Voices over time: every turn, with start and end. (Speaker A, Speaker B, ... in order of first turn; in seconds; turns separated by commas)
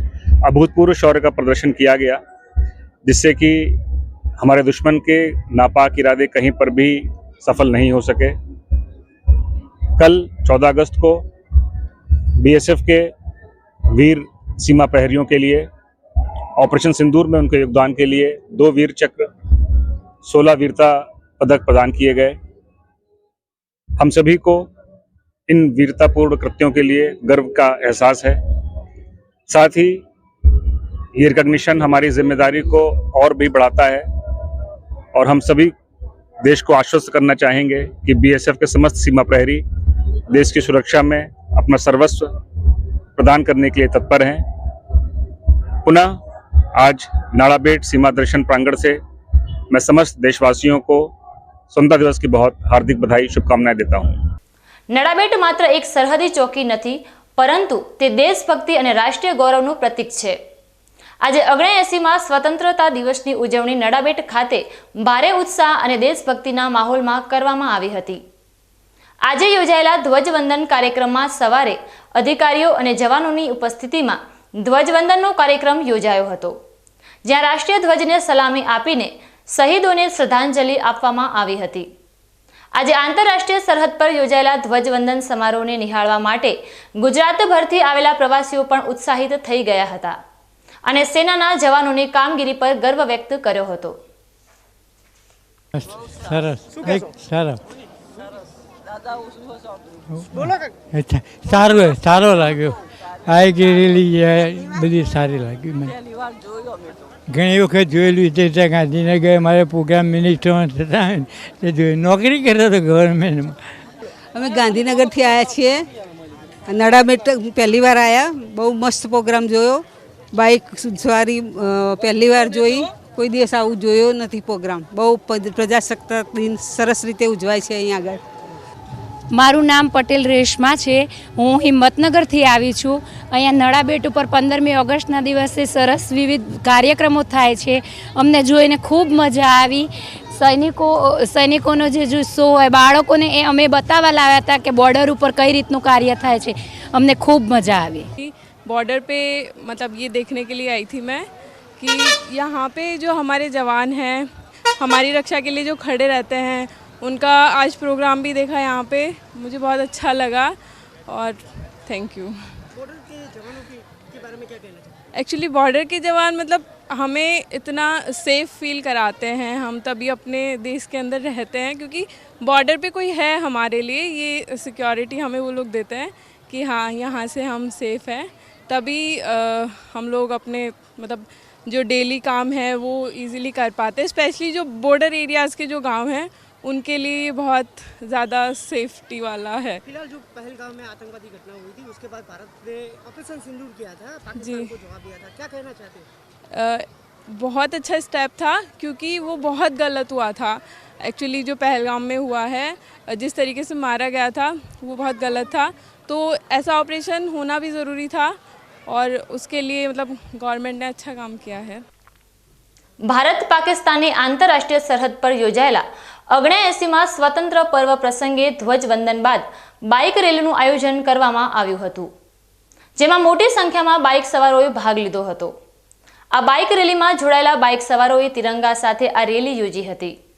Speaker A: 0.5-2.2, Speaker A: 3.1-3.8, Speaker A: 4.4-8.3, Speaker A: 10.0-11.2, Speaker A: 12.4-13.1, Speaker A: 13.9-15.7, Speaker A: 16.6-22.4, Speaker A: 24.0-24.7, Speaker A: 25.5-28.4, Speaker A: 29.5-30.0, Speaker A: 31.2-34.0, Speaker A: 35.1-35.7, Speaker A: 36.4-39.6, Speaker A: 40.3-42.3, Speaker A: 43.2-44.5, Speaker A: 45.8-46.1, Speaker A: 46.8-49.0, Speaker A: 49.7-51.1, Speaker A: 51.7-54.1, Speaker B: 54.9-60.4, Speaker B: 61.2-68.2, Speaker B: 69.2-76.6, Speaker B: 77.2-81.9, Speaker B: 82.8-90.2, Speaker B: 90.9-94.0, Speaker C: 96.2-97.6, Speaker D: 96.7-97.2, Speaker C: 100.2-106.0, Speaker D: 100.3-100.8, Speaker C: 107.3-113.6, Speaker E: 114.3-115.9, Speaker E: 116.7-128.2, Speaker F: 129.3-148.1, Speaker G: 148.2-160.5, Speaker G: 161.1-162.4, Speaker D: 162.8-165.0, Speaker G: 165.1-189.8, Speaker D: 189.8-196.1, Speaker G: 194.3-194.8, Speaker G: 196.5-208.3, Speaker G: 208.9-211.8, Speaker B: 213.1-222.1, Speaker B: 223.0-225.5, Speaker B: 226.3-230.1